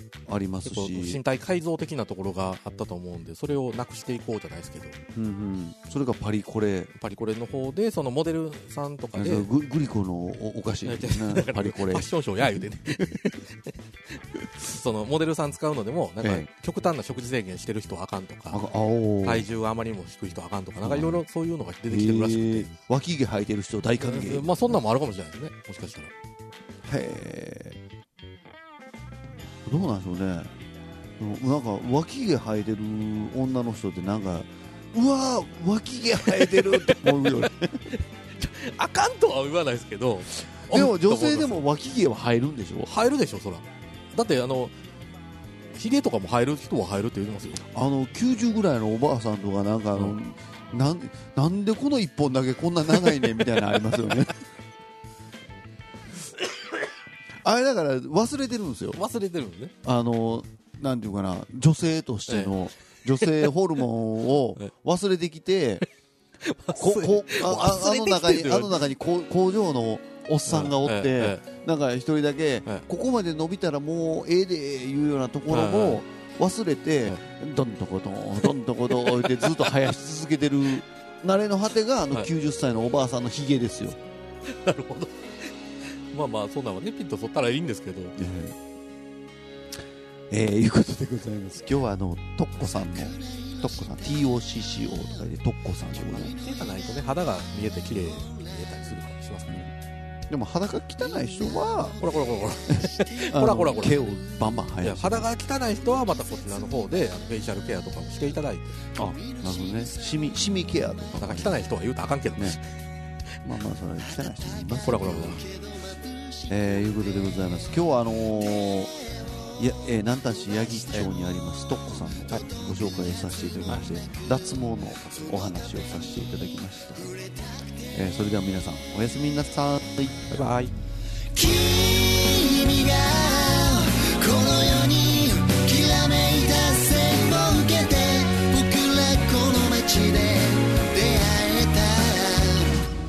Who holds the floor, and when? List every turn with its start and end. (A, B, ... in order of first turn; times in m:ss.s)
0:00.3-0:01.2 A
0:00.6-0:05.0 B
0:05.1-0:06.9 A
0:06.9-0:09.5 B
0:09.2-0:12.1 A
0:10.8-0:18.6 B
0:16.2-0:16.5 A
0:18.5-0:19.5 A
0:19.2-0:22.7 B
0:20.8-0:21.2 A
0:21.9-0:24.8 A
0:24.0-0:26.1 B
0:26.8-0:27.8 A
0:29.6-0:30.5 A
0:31.2-0:37.9 A
0:36.2-0:41.6 B
0:40.7-0:42.9 A
0:42.8-0:44.8 B
0:45.7-0:47.6 B
0:47.7-0:54.3 A
0:57.4-0:59.0 A
0:58.9-0:59.7 B
0:59.8-1:05.8 A
1:02.3-1:02.5 B
1:06.4-1:08.8 B
1:06.7-1:24.0 A
1:10.5-1:11.4 B
1:15.5-1:16.0 B
1:18.9-1:19.7 B
1:24.4-1:28.2 B
1:28.2-1:28.6 A
1:30.3-1:36.3 A
1:35.9-1:39.7 B
1:40.3-1:42.0 A
1:42.0-1:44.1 B
1:42.7-1:45.3 A
1:44.8-1:48.8 B
1:48.9-1:51.6 A
1:51.2-1:52.6 B
1:53.4-1:55.4 A
1:54.8-1:55.4 B
1:55.4-1:56.4 C
1:56.5-1:58.9 A
1:59.6-2:07.1 A
2:07.9-2:10.3 A
2:10.3-2:10.7 B
2:11.3-2:22.9 C